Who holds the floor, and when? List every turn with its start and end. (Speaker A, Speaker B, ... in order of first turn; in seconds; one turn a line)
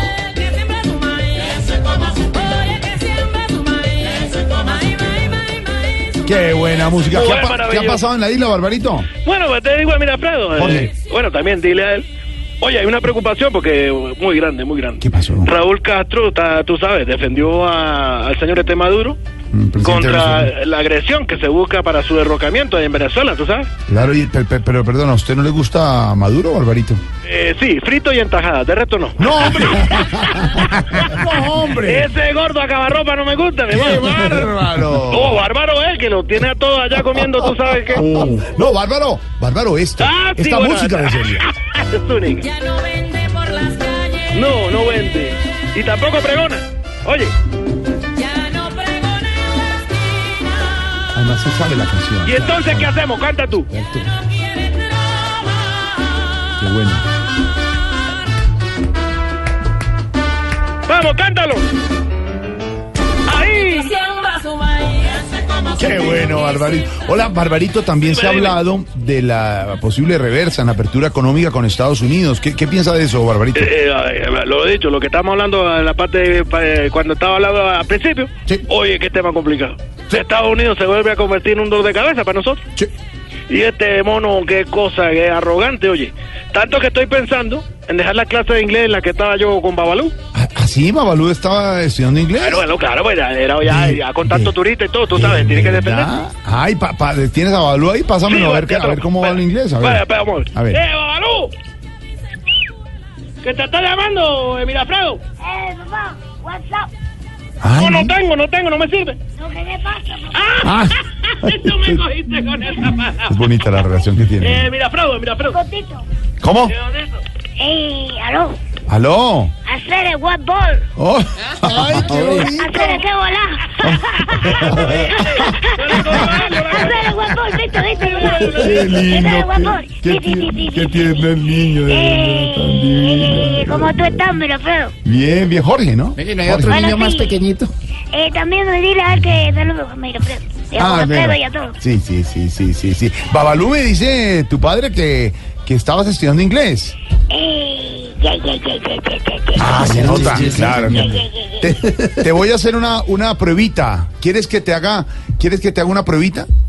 Speaker A: 6.2-9.1
Speaker B: 7.1-8.0
Speaker B: 9.2-12.1
Speaker A: 10.6-10.9
Speaker B: 12.6-19.2
Speaker A: 15.0-15.5
Speaker A: 19.5-20.5
Speaker B: 19.8-23.7
Speaker A: 23.9-27.0
Speaker B: 27.2-30.7
Speaker A: 29.2-32.1
Speaker B: 31.8-34.3
Speaker A: 33.7-35.4
Speaker B: 35.1-38.0
Speaker A: 37.9-41.5
Speaker B: 40.0-42.6
Speaker C: 42.7-44.2
Speaker B: 44.2-47.3
Speaker C: 48.2-49.2
Speaker A: 51.1-53.0
Speaker B: 52.2-53.7
Speaker A: 53.7-54.1
Speaker A: 56.6-57.1
Speaker B: 60.9-61.7
Speaker B: 63.2-64.2
Speaker A: 65.7-73.7
Speaker B: 68.1-68.6
Speaker B: 73.5-82.6
Speaker B: 83.5-90.2
Speaker A: 90.3-92.7
Speaker B: 92.4-96.1
Speaker A: 93.6-94.5
Speaker A: 95.2-100.8
Speaker B: 98.3-101.5
Speaker B: 103.4-105.2
Speaker D: 105.4-106.9
Speaker A: 107.6-108.1
Speaker B: 107.8-109.2
Speaker D: 109.3-110.7
Speaker B: 110.3-113.3
Speaker A: 110.6-112.0
Speaker A: 113.2-114.7
Speaker B: 114.4-115.6
Speaker D: 115.4-116.0
Speaker A: 116.4-116.7
Speaker B: 116.7-117.2
Speaker D: 117.6-118.6
Speaker A: 118.9-119.5
Speaker D: 119.7-120.9
Speaker A: 121.0-123.0
Speaker E: 121.8-122.5
Speaker D: 122.5-131.2
Speaker A: 123.8-126.6
Speaker B: 124.7-129.1
Speaker A: 128.2-134.3
Speaker D: 131.9-134.9
Speaker A: 135.0-136.9
Speaker E: 136.2-137.7
Speaker D: 136.6-137.3
Speaker D: 138.1-141.8
Speaker A: 140.8-147.0
Speaker D: 147.3-150.0
Speaker A: 149.5-156.5
Speaker E: 149.7-151.2
Speaker D: 150.8-151.7